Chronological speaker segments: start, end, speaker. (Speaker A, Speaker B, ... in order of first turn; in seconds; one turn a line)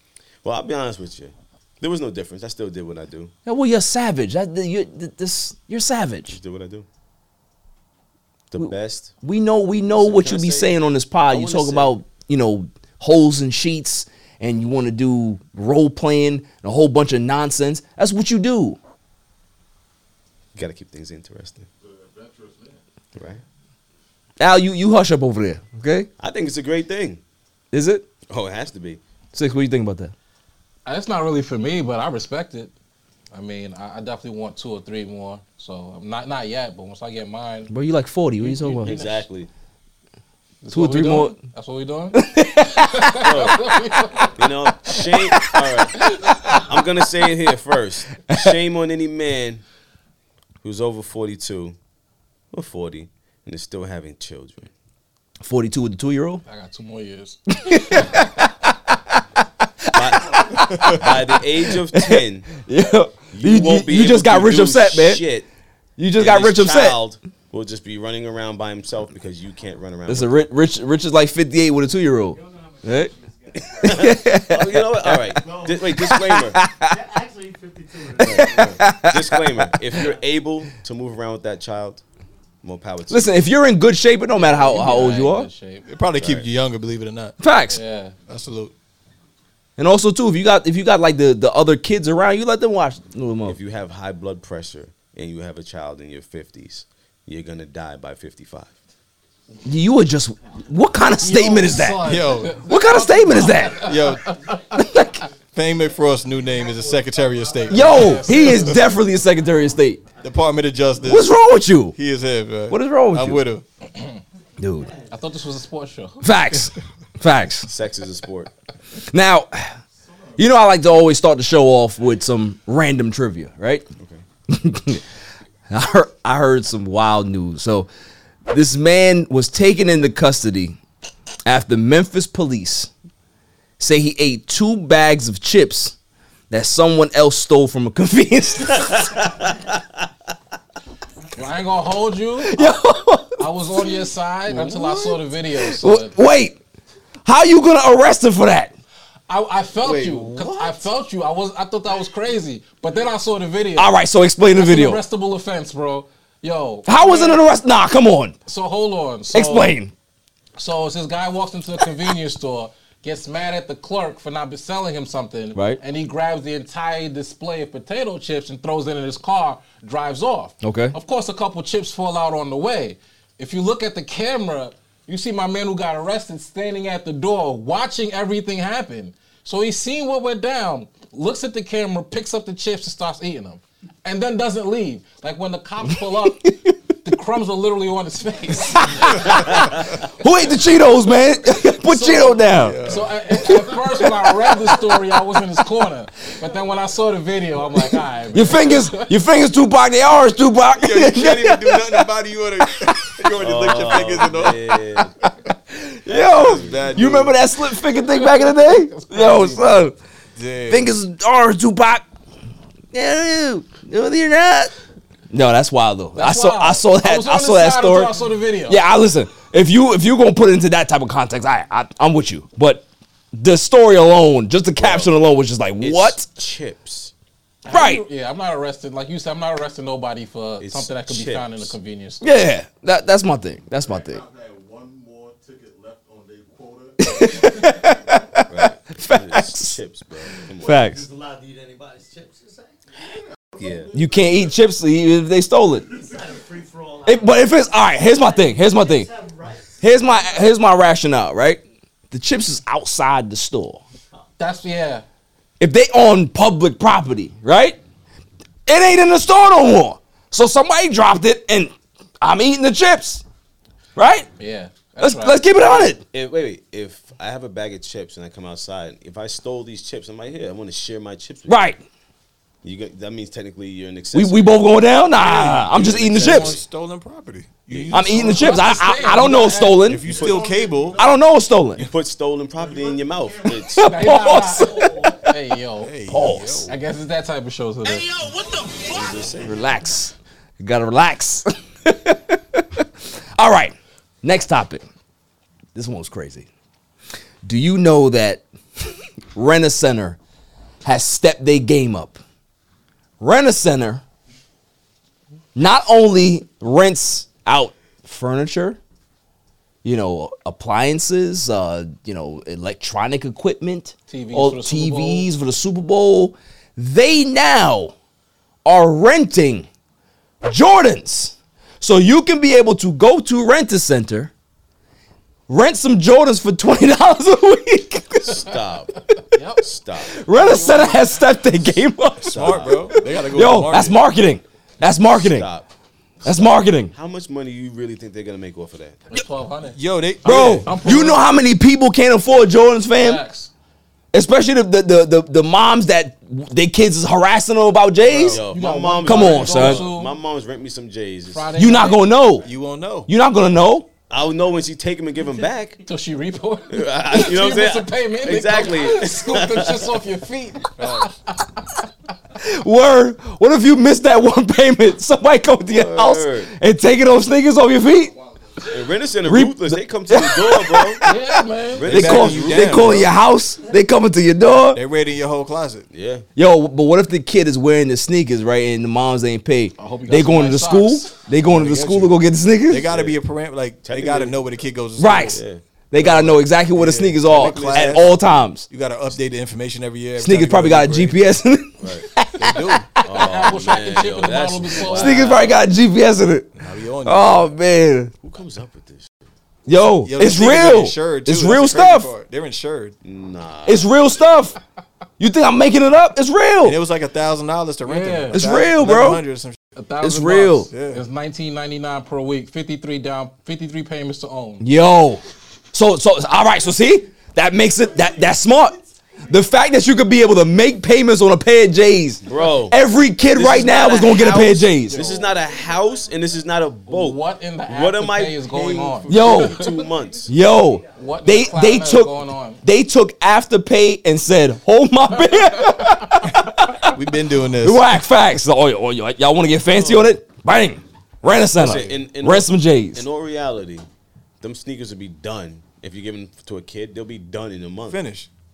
Speaker A: 0.4-3.3
Speaker B: 3.5-6.4
Speaker A: 6.3-6.9
Speaker A: 8.5-9.1
Speaker B: 8.6-18.8
Speaker A: 9.9-11.9
Speaker A: 20.6-21.7
Speaker C: 21.8-22.8
Speaker A: 23.2-23.4
Speaker B: 24.4-26.1
Speaker A: 26.2-27.2
Speaker B: 27.7-28.1
Speaker A: 28.3-29.0
Speaker B: 29.3-30.1
Speaker D: 30.9-32.7
Speaker D: 33.3-37.7
Speaker B: 37.7-39.1
Speaker D: 38.4-39.1
Speaker A: 38.8-39.5
Speaker D: 40.6-44.3
Speaker B: 40.7-41.3
Speaker B: 42.1-43.3
Speaker A: 43.2-43.6
Speaker A: 44.4-49.6
Speaker D: 46.0-46.6
Speaker A: 50.6-51.8
Speaker A: 52.5-54.7
Speaker B: 55.4-56.4
Speaker D: 56.5-58.2
Speaker B: 57.6-58.5
Speaker A: 59.9-62.6
Speaker B: 60.0-65.2
Speaker A: 63.3-65.5
Speaker B: 66.0-67.0
Speaker A: 66.2-70.4
Speaker B: 70.1-73.1
Speaker A: 73.8-76.6
Speaker B: 73.8-75.3
Speaker B: 75.9-77.0
Speaker C: 77.2-78.1
Speaker B: 78.2-80.0
Speaker A: 78.2-82.0
Speaker A: 82.6-83.4
Speaker B: 83.1-85.5
Speaker D: 84.3-85.8
Speaker E: 85.8-87.3
Speaker A: 86.2-86.5
Speaker B: 87.4-87.8
Speaker D: 87.7-88.2
Speaker E: 88.3-88.7
Speaker B: 89.8-93.6
Speaker A: 93.5-98.7
Speaker B: 99.7-102.1
Speaker D: 101.2-104.6
Speaker E: 102.0-102.6
Speaker B: 102.7-103.9
Speaker E: 103.8-104.3
Speaker B: 104.7-105.2
Speaker E: 105.5-108.8
Speaker B: 107.7-110.0
Speaker D: 107.7-108.8
Speaker E: 110.2-111.3
Speaker B: 111.0-112.0
Speaker E: 112.0-113.6
Speaker B: 112.7-113.5
Speaker B: 114.6-114.9
Speaker D: 115.1-116.2
Speaker B: 116.2-117.7
Speaker A: 117.7-118.5
Speaker B: 119.1-119.8
Speaker B: 120.4-123.9
Speaker B: 124.5-125.0
Speaker B: 125.7-127.9
Speaker B: 128.5-130.8
Speaker B: 131.5-132.9
Speaker B: 133.8-136.0
Speaker B: 136.5-139.3
Speaker D: 141.4-142.8
Speaker B: 142.4-143.4
Speaker D: 143.4-146.1
Speaker B: 144.5-146.6
Speaker B: 147.2-148.7
Speaker D: 149.3-153.9
Speaker B: 149.8-150.8
Speaker B: 153.8-155.0
Speaker D: 154.5-157.4
Speaker B: 156.9-158.3
Speaker D: 158.5-159.7
Speaker B: 159.3-159.9
Speaker D: 160.6-186.5
Speaker B: 165.6-165.8
Speaker B: 170.6-170.9
Speaker B: 185.9-186.8
Speaker D: 187.0-189.4
Speaker B: 188.8-194.7
Speaker D: 191.8-199.1
Speaker E: 192.5-193.2
Speaker B: 198.3-202.1
Speaker E: 200.7-204.8
Speaker A: 203.4-205.2
Speaker B: 205.8-210.0
Speaker A: 206.1-207.2
Speaker E: 206.2-207.4
Speaker D: 208.1-209.9
Speaker E: 210.4-210.9
Speaker B: 210.7-212.1
Speaker B: 212.9-214.7
Speaker B: 215.3-218.1
Speaker D: 216.2-218.8
Speaker B: 218.7-226.2
Speaker A: 224.8-225.1
Speaker A: 225.8-227.1
Speaker D: 227.7-232.5
Speaker B: 227.7-228.0
Speaker A: 230.6-231.7
Speaker B: 232.2-234.2
Speaker C: 233.8-238.1
Speaker B: 237.0-239.8
Speaker A: 238.5-240.9
Speaker B: 240.5-241.1
Speaker A: 243.6-243.9
Speaker C: 243.6-244.4
Speaker B: 243.9-245.9
Speaker B: 247.0-249.1
Speaker B: 249.8-253.8
Speaker D: 254.4-255.1
Speaker B: 255.6-257.8
Speaker B: 258.7-263.2
Speaker B: 264.0-264.3
Speaker D: 264.4-265.9
Speaker B: 265.0-266.0
Speaker A: 266.1-271.6
Speaker B: 271.5-271.8
Speaker A: 272.6-274.7
Speaker B: 274.1-276.6
Speaker E: 275.1-281.1
Speaker A: 275.6-276.6
Speaker A: 277.7-278.0
Speaker B: 277.9-280.2
Speaker D: 278.2-279.9
Speaker A: 280.1-280.6
Speaker C: 280.2-281.0
Speaker B: 281.0-281.9
Speaker A: 281.8-283.9
Speaker C: 282.6-283.6
Speaker B: 283.7-285.2
Speaker D: 283.8-285.9
Speaker E: 285.8-286.7
Speaker B: 286.1-286.7
Speaker D: 286.6-288.1
Speaker A: 288.9-289.6
Speaker B: 289.4-294.8
Speaker B: 295.8-296.5
Speaker B: 297.4-300.2
Speaker B: 300.8-302.2
Speaker B: 303.2-304.0
Speaker B: 305.6-308.8
Speaker B: 309.8-317.9
Speaker D: 314.1-315.3
Speaker B: 318.6-319.7
Speaker B: 320.4-324.3
Speaker B: 325.5-328.4
Speaker A: 328.2-329.0
Speaker D: 329.3-329.6
Speaker A: 329.6-330.2
Speaker B: 330.1-335.5
Speaker D: 330.3-331.3
Speaker A: 332.2-333.0
Speaker E: 332.3-334.0
Speaker A: 334.9-335.7
Speaker A: 336.2-339.0
Speaker B: 336.2-336.9
Speaker D: 339.1-341.3
Speaker E: 339.7-340.8
Speaker B: 340.2-343.2
Speaker D: 343.0-343.5
Speaker B: 344.1-348.4
Speaker A: 348.1-351.6
Speaker D: 348.3-350.1
Speaker B: 349.0-349.9
Speaker D: 351.3-352.0
Speaker B: 351.6-352.5
Speaker E: 352.4-353.1
Speaker B: 353.1-353.9
Speaker A: 354.1-355.8
Speaker D: 355.9-361.8
Speaker A: 356.7-360.0
Speaker E: 360.8-361.1
Speaker B: 362.4-368.1
Speaker A: 365.7-366.5
Speaker A: 368.7-371.1
Speaker B: 369.2-371.1
Speaker D: 371.0-371.9
Speaker A: 371.7-372.9
Speaker E: 371.9-373.1
Speaker B: 371.9-374.8
Speaker E: 374.7-375.9
Speaker A: 375.9-376.3
Speaker B: 376.4-382.9
Speaker D: 379.8-381.2
Speaker E: 381.4-382.2
Speaker E: 382.7-385.4
Speaker A: 382.9-383.2
Speaker A: 383.8-384.5
Speaker B: 385.0-385.4
Speaker A: 385.1-385.6
Speaker B: 385.9-388.7
Speaker E: 385.9-391.2
Speaker A: 387.3-388.1
Speaker B: 390.2-392.9
Speaker A: 391.8-392.1
Speaker E: 392.4-392.9
Speaker A: 393.0-395.6
Speaker D: 393.1-395.5
Speaker B: 394.9-398.1
Speaker E: 396.6-397.5
Speaker A: 398.2-399.1
Speaker B: 399.7-402.1
Speaker E: 400.0-403.0
Speaker A: 403.0-404.0
Speaker B: 403.7-404.6
Speaker B: 405.2-406.8
Speaker E: 406.6-409.6
Speaker D: 407.9-408.4
Speaker B: 408.3-409.2
Speaker D: 409.8-414.6
Speaker B: 410.0-410.7
Speaker E: 410.7-411.0
Speaker B: 414.6-415.2
Speaker B: 415.7-418.8
Speaker B: 419.3-425.1
Speaker A: 422.2-422.8
Speaker A: 423.3-430.3
Speaker D: 424.9-425.3
Speaker D: 426.9-429.8
Speaker B: 429.1-429.6
Speaker B: 430.3-437.0
Speaker D: 430.9-432.6
Speaker D: 435.3-436.0
Speaker E: 436.9-437.9
Speaker B: 437.6-443.1
Speaker A: 441.6-443.9
Speaker A: 444.4-448.0
Speaker E: 447.9-448.3